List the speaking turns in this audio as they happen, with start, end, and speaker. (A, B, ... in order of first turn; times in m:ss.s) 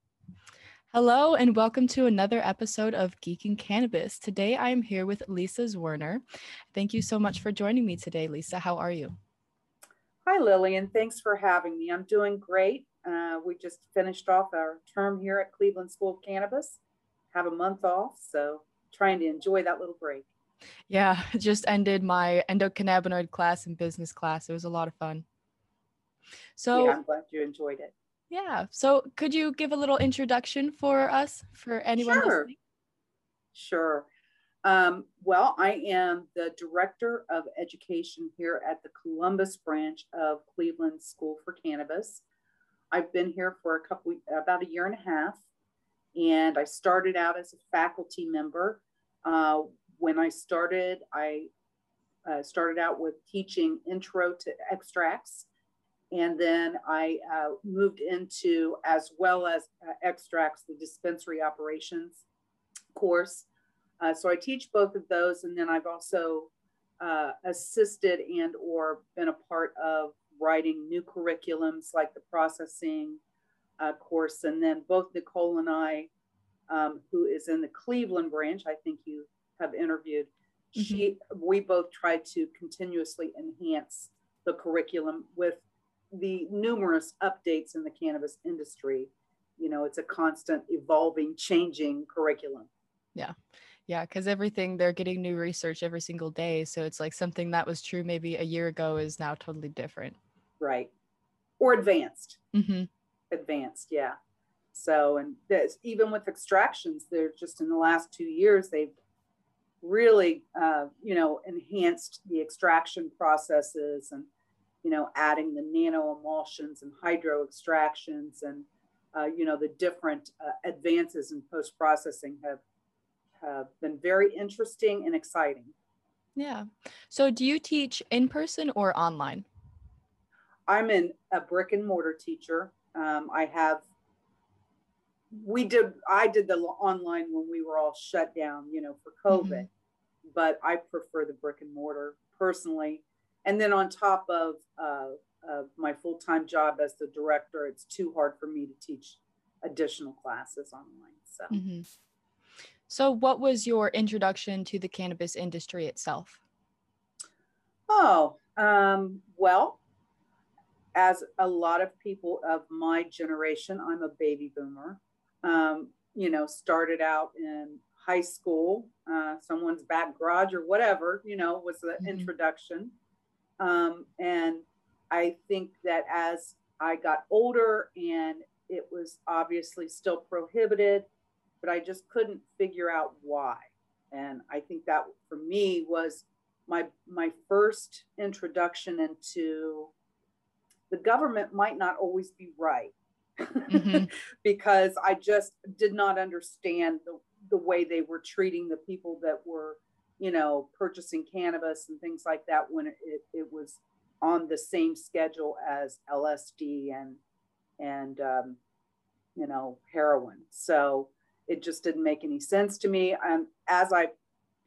0:00.9-0:06.2 A
0:06.7-0:09.2 A
0:10.2-0:16.8 B
0:17.3-0:20.3 B
0:20.9-0:25.2 A
0:26.6-0:27.0 A
0:26.7-0:27.9 B
0:28.3-0:32.5 A
0:32.0-0:32.5 B
0:33.5-0:34.1 B
0:34.6-0:42.2 B
0:42.9-0:45.4 B
0:46.1-0:51.5 B
0:52.2-0:55.5 B
0:56.1-1:02.2 B
1:02.9-1:03.5 B
1:04.0-1:13.2 B
1:13.8-1:16.1 B
1:16.7-1:32.7 B
1:20.8-1:21.0 A
1:33.9-1:40.2 A
1:40.6-1:40.9 B
1:41.6-1:42.4 B
1:42.5-1:42.9 A
1:43.3-1:44.1 B
1:44.7-1:48.9 B
1:49.8-1:54.3 B
1:54.8-2:02.6 B
2:03.4-2:05.7 B
2:06.4-2:09.4 A
2:10.7-2:13.8 B
2:15.3-2:19.7 B
2:19.3-2:19.7 A
2:20.2-2:31.6 B
2:31.5-2:31.8 A
2:32.9-2:36.4 A
2:37.9-2:39.8 B
2:40.9-2:52.9 B
2:52.0-2:52.3 A
2:53.6-3:01.1 B
3:01.6-3:09.9 B
3:10.9-3:27.2 B
3:13.7-3:14.1 A
3:27.8-3:28.6 B
3:29.4-3:34.1 B